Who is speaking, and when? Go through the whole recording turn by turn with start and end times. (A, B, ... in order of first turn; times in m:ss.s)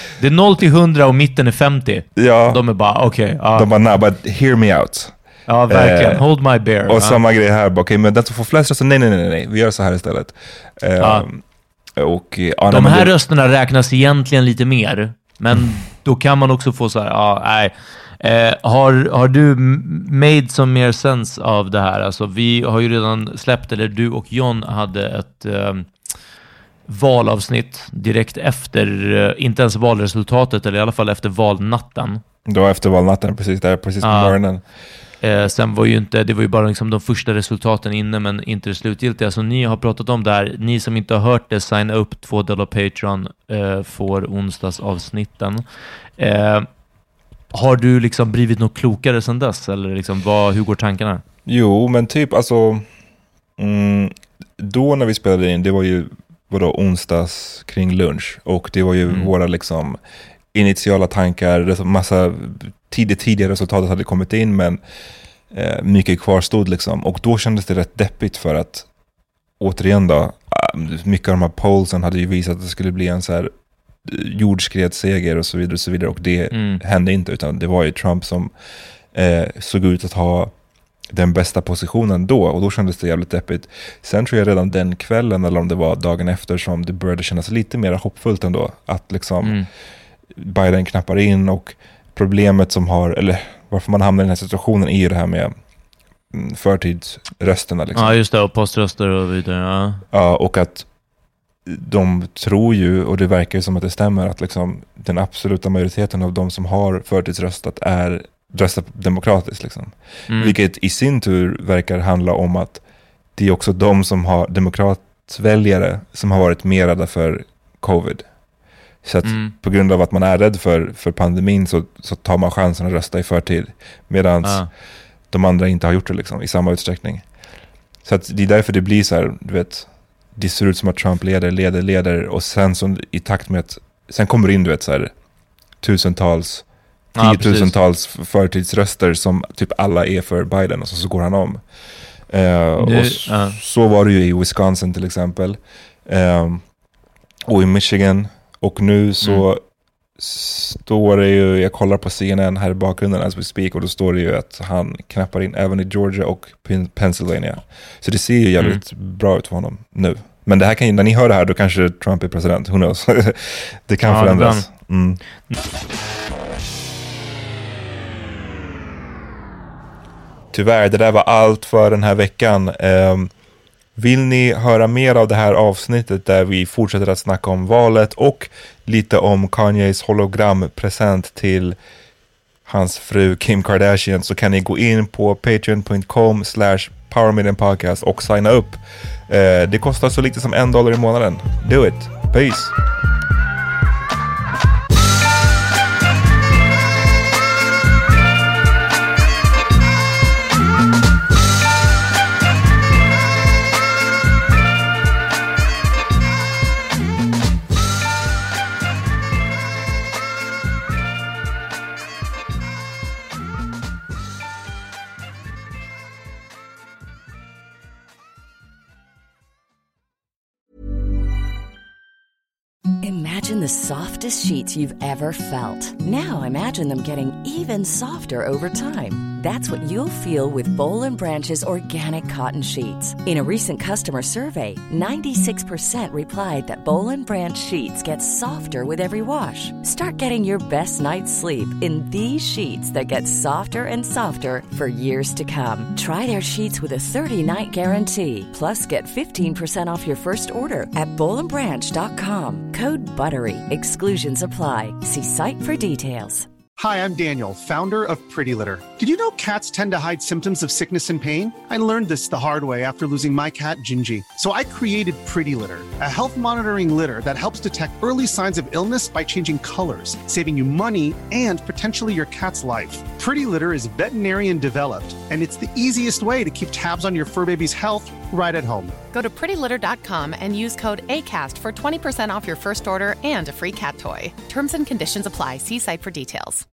0:00.2-0:03.7 A
0:02.2-0:02.6 B
0:03.5-0:05.2 B
0:05.5-0:07.2 A
0:05.7-0:06.2 B
0:06.9-0:11.4 B
0:11.0-0:11.2 A
0:12.0-0:13.1 B
0:12.7-0:25.9 A
0:26.9-0:32.2 A
0:32.4-0:34.6 B
0:34.0-0:34.4 A
0:35.2-0:45.6 A
0:46.2-0:46.7 A
0:47.5-0:51.2 A
0:51.4-0:52.9 B
0:53.6-1:00.0 B
1:00.5-1:04.8 B
1:05.5-1:08.9 B
1:09.6-1:18.5 B
1:16.5-1:16.8 A
1:19.1-1:20.5 B
1:21.1-1:29.6 B
1:30.3-1:35.6 B
1:36.3-1:38.2 B
1:37.9-1:40.0 A
1:40.1-1:40.9 B
1:41.6-1:52.8 B
1:50.3-1:50.6 A
1:53.4-1:58.3 B
1:59.0-2:04.7 B
1:59.2-1:59.5 A
2:04.4-2:04.7 A
2:05.3-2:07.2 B
2:08.0-2:15.1 B
2:15.8-2:21.6 B
2:17.1-2:17.8 A
2:22.3-2:26.6 B
2:22.8-2:23.6 A
2:27.5-2:29.6 B
2:30.2-2:45.2 B
2:44.0-2:44.7 A
2:50.5-2:53.3 B
2:54.0-3:01.8 B
3:02.6-3:12.8 B
3:43.0-4:16.5 C
4:16.8-4:38.9 D
4:39.1-4:46.6 E